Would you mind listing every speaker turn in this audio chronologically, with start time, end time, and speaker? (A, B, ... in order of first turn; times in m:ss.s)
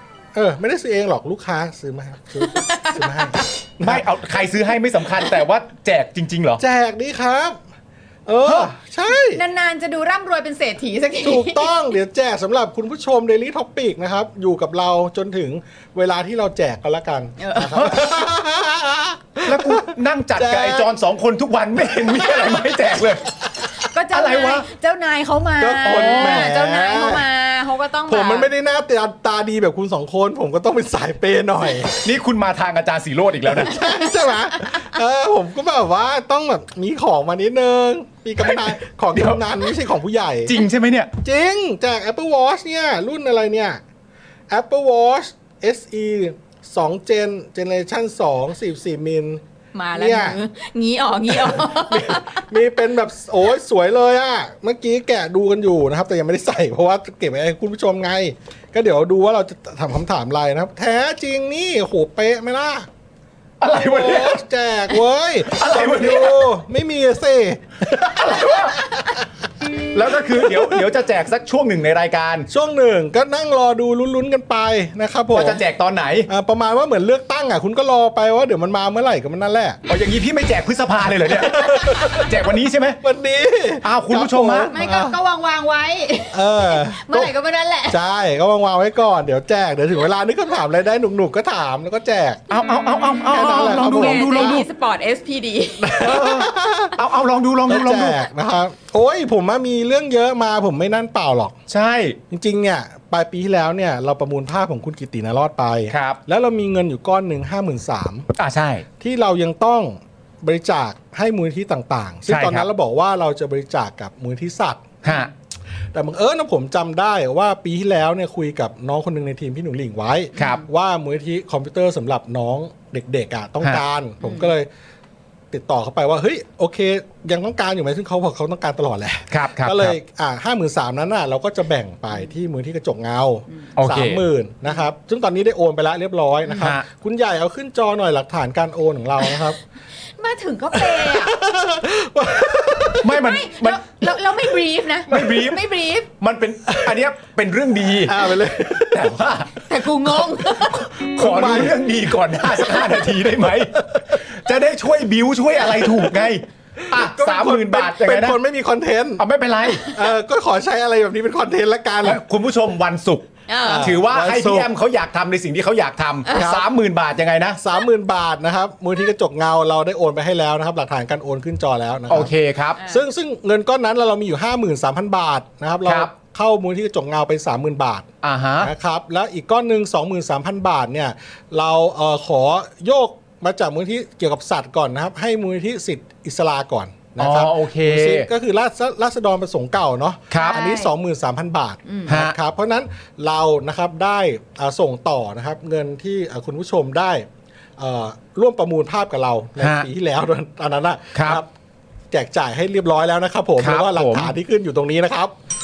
0:00.3-0:04.1 A
0:02.4-0:03.5 B
0:03.8-0:06.6 C
0:06.6-0:07.6 A
0:08.3-0:09.4 A
0:08.4-0:08.7 C
0:09.1-0:11.8 B
0:11.2-0:20.9 A
0:17.4-0:17.7 B
0:17.7-0:18.2 C
0:19.5-0:23.3 C
0:23.8-0:28.5 B
0:24.1-0:24.7 C
0:25.6-0:27.2 A
0:25.9-0:26.5 C
0:28.1-0:32.0 A
0:32.0-0:33.8 C
0:33.5-0:40.6 A
0:38.4-0:39.4 C
0:40.5-0:41.1 C
0:41.2-0:43.8 A
0:44.5-0:49.4 A
0:49.7-0:52.5 B
0:50.0-0:50.4 A
0:51.3-1:02.9 A
1:03.6-1:04.4 C
1:03.7-1:09.2 A
1:05.6-1:06.5 C
1:07.9-1:08.9 C
1:09.9-1:12.5 C
1:10.3-1:10.8 A
1:12.5-1:15.6 A
1:15.3-1:16.3 C
1:16.3-1:19.8 A
1:19.9-1:23.0 C
1:21.3-1:22.3 A
1:23.0-1:25.2 A
1:23.8-1:24.7 C
1:24.7-1:28.0 B
1:26.3-1:27.3 A
1:27.9-1:32.5 A
1:32.5-1:36.0 B
1:32.5-1:34.7 C
1:33.2-1:34.6 A
1:35.8-1:37.0 A
1:36.0-1:38.2 C
1:37.7-1:41.6 A
1:41.7-1:42.2 C
1:42.3-1:48.3 A
1:45.9-1:46.2 C
1:48.4-1:48.9 C
1:49.0-1:55.2 A
1:52.3-1:52.7 C
1:55.0-1:55.3 C
1:55.9-2:04.7 A
2:00.4-2:00.6 B
2:00.4-2:00.6 C
2:04.2-2:04.5 B
2:05.5-2:19.6 A
2:09.3-2:10.0 C
2:13.8-2:14.2 C
2:20.2-2:21.4 B
2:20.8-2:23.1 A
2:23.0-2:23.8 C
2:23.1-2:26.1 B
2:25.1-2:28.4 C
2:26.7-2:26.9 A
2:28.0-2:29.1 A
2:28.9-2:29.7 C
2:29.7-2:30.9 B
2:30.7-2:38.4 C
2:31.0-2:33.2 A
2:36.8-2:39.2 A
2:39.2-2:39.9 C
2:39.8-2:42.2 A
2:42.0-2:47.6 C
2:43.5-2:44.0 B
2:43.6-2:44.7 A
2:46.3-2:46.5 B
2:46.3-2:46.7 A
2:47.6-2:58.1 A
2:52.1-2:52.8 C
2:55.8-2:56.1 C
2:58.2-2:58.7 C
2:58.6-3:21.5 A
3:07.2-3:08.3 C
3:10.3-3:10.6 C
3:10.4-3:10.9 B
3:11.9-3:12.1 B
3:12.1-3:12.4 C
3:19.6-3:19.9 C
3:21.1-3:21.4 C
3:22.1-3:25.4 A
3:23.6-3:24.3 C